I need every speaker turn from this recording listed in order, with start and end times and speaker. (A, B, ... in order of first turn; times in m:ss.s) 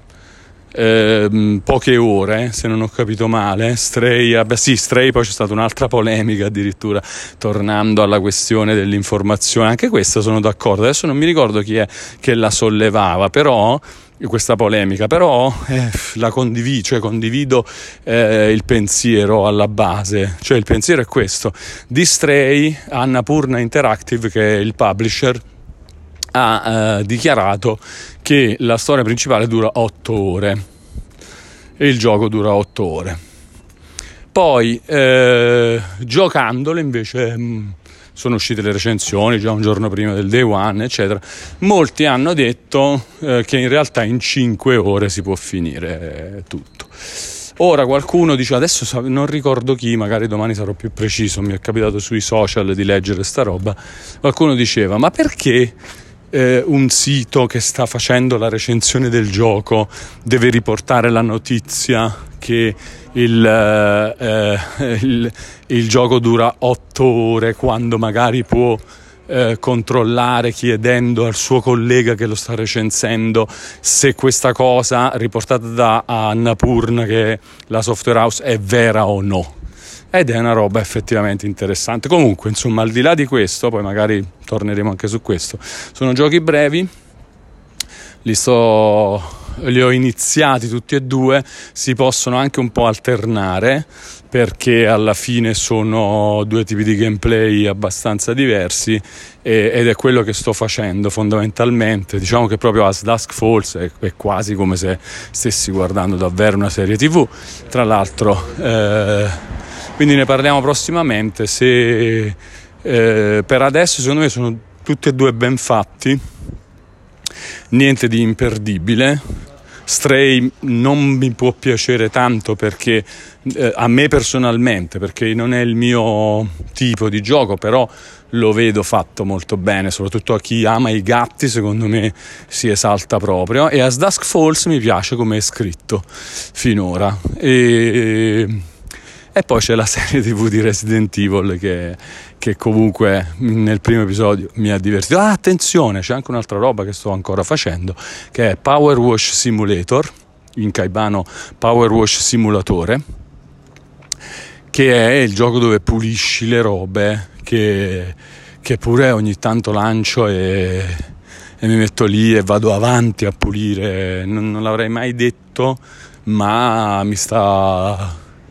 0:00.7-0:25.4 A
0:26.3-0:30.6 A
0:31.8-0:33.2 A
0:34.3-0:46.9 A
0:47.6-0:55.8 A
0:56.3-1:19.5 A
1:20.1-1:26.9 A
1:28.2-1:49.4 A
1:50.0-1:56.2 A
1:57.7-1:59.2 A
1:59.9-2:18.6 A
2:19.3-2:33.0 A
2:34.7-2:41.1 A
2:41.6-2:48.2 A